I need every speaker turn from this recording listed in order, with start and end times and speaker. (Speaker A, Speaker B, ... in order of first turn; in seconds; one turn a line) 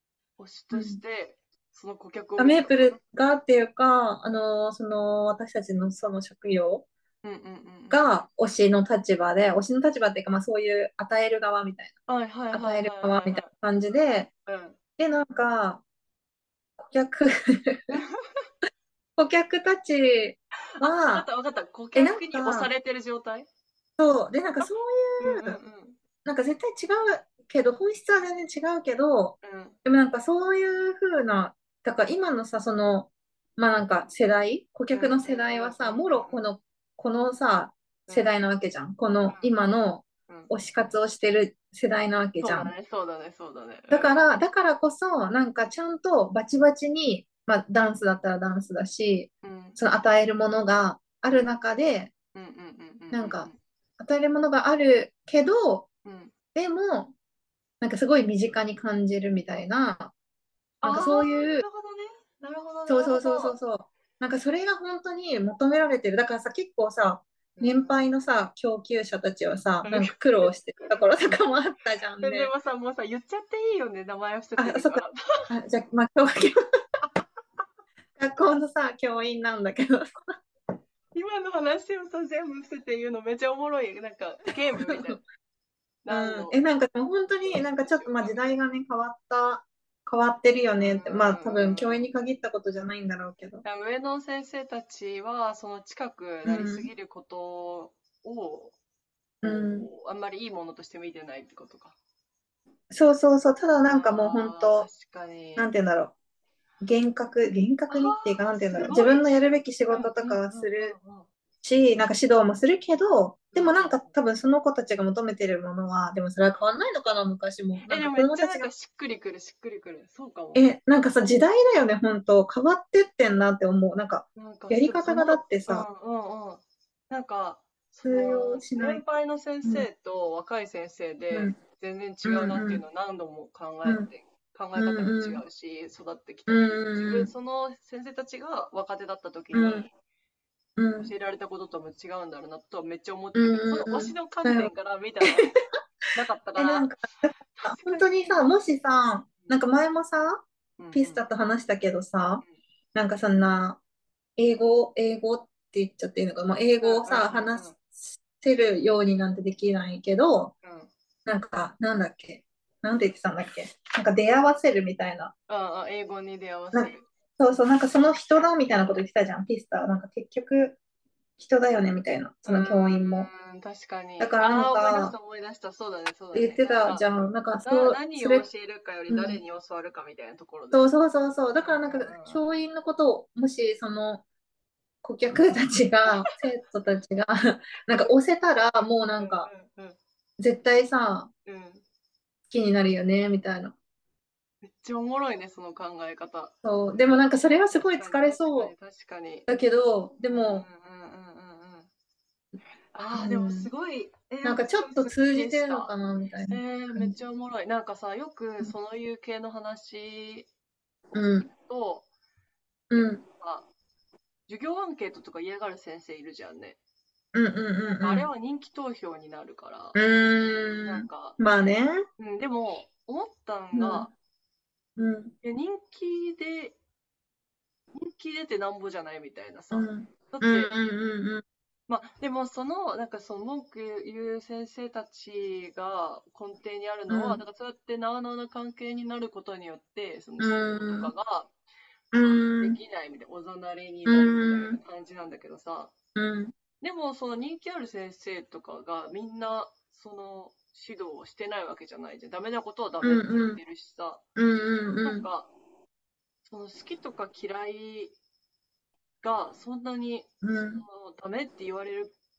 Speaker A: 0.4-3.0
Speaker B: 0.7-1.0
Speaker B: 2.4-6.9
Speaker A: 7.2-8.1
Speaker B: 7.9-11.9
Speaker A: 12.1-13.5
Speaker B: 12.5-14.3
Speaker A: 14.5-14.8
Speaker B: 15.0-15.8
Speaker B: 16.8-18.0
Speaker B: 19.2-21.3
Speaker A: 20.8-23.5
Speaker B: 21.9-22.7
Speaker B: 24.0-25.6
Speaker A: 25.2-26.0
Speaker B: 26.2-42.7
Speaker A: 29.4-29.8
Speaker A: 34.9-36.5
Speaker A: 38.1-38.3
Speaker A: 39.3-39.5
Speaker A: 42.4-44.3
Speaker B: 43.9-52.1
Speaker A: 49.4-49.8
Speaker A: 52.4-53.6
Speaker B: 53.1-55.9
Speaker A: 56.0-56.3
Speaker B: 56.5-57.1
Speaker B: 57.8-60.1
Speaker A: 60.8-63.6
Speaker B: 60.8-61.6
Speaker B: 62.9-72.5
Speaker A: 67.6-68.0
Speaker A: 69.8-71.3
Speaker A: 72.2-75.5
Speaker B: 74.6-76.6
Speaker B: 78.2-80.2
Speaker A: 81.1-85.2
Speaker B: 84.9-85.2
Speaker A: 86.0-86.6
Speaker B: 86.1-93.6
Speaker A: 87.4-88.4
Speaker A: 90.8-92.1
Speaker A: 93.6-98.7
Speaker B: 96.5-96.9
Speaker A: 99.4-102.0
Speaker B: 99.4-99.9
Speaker B: 102.9-104.9
Speaker A: 103.9-105.7
Speaker B: 105.6-106.1
Speaker B: 106.8-111.0
Speaker A: 107.9-111.3
Speaker B: 111.6-118.7
Speaker A: 113.5-114.2
Speaker A: 117.8-120.7
Speaker B: 120.5-125.9
Speaker A: 124.4-139.9
Speaker B: 128.0-129.0
Speaker B: 131.3-131.6
Speaker B: 132.2-132.8
Speaker B: 134.8-135.4
Speaker B: 136.5-137.3
Speaker B: 139.5-139.9
Speaker B: 140.8-141.1
Speaker A: 141.0-145.6
Speaker B: 143.3-144.7
Speaker B: 145.2-145.5
Speaker A: 146.2-146.9
Speaker B: 146.6-152.4
Speaker A: 147.5-148.5
Speaker A: 150.8-151.2
Speaker B: 152.9-153.8
Speaker B: 154.4-160.5
Speaker A: 156.8-157.8
Speaker A: 160.6-160.9
Speaker B: 161.3-165.3
Speaker A: 165.5-167.1
Speaker B: 166.7-170.8
Speaker B: 171.4-173.3
Speaker A: 172.5-177.1
Speaker B: 174.2-175.2
Speaker B: 176.3-178.5
Speaker A: 177.6-180.9
Speaker B: 179.1-179.4
Speaker B: 180.7-184.2
Speaker A: 181.6-182.4
Speaker B: 185.0-189.5
Speaker A: 189.2-190.0
Speaker B: 190.4-191.3
Speaker A: 191.5-191.8
Speaker B: 192.5-193.8
Speaker A: 194.6-196.5
Speaker B: 196.6-198.7
Speaker A: 197.7-199.5
Speaker B: 199.5-200.7
Speaker A: 200.5-201.9
Speaker A: 202.9-210.5
Speaker B: 203.2-203.7
Speaker B: 204.4-207.2
Speaker B: 211.1-211.5
Speaker A: 211.5-212.1
Speaker B: 212.9-213.2
Speaker A: 213.0-213.7
Speaker A: 214.5-216.8
Speaker B: 217.3-218.3
Speaker A: 217.9-220.0
Speaker B: 219.9-222.0
Speaker A: 220.8-221.4
Speaker A: 222.2-224.1
Speaker B: 223.7-224.1
Speaker B: 225.0-225.3
Speaker A: 225.4-226.8
Speaker A: 227.9-230.7
Speaker B: 229.7-231.4
Speaker A: 231.9-241.5
Speaker B: 237.1-237.4
Speaker B: 240.4-241.1
Speaker B: 242.1-242.8
Speaker A: 242.1-245.9
Speaker B: 244.1-244.8
Speaker B: 246.2-246.6
Speaker A: 246.8-254.2
Speaker B: 253.0-253.6
Speaker B: 254.4-255.3
Speaker A: 255.0-255.5
Speaker A: 256.4-258.1
Speaker A: 259.2-262.1
Speaker B: 260.4-260.8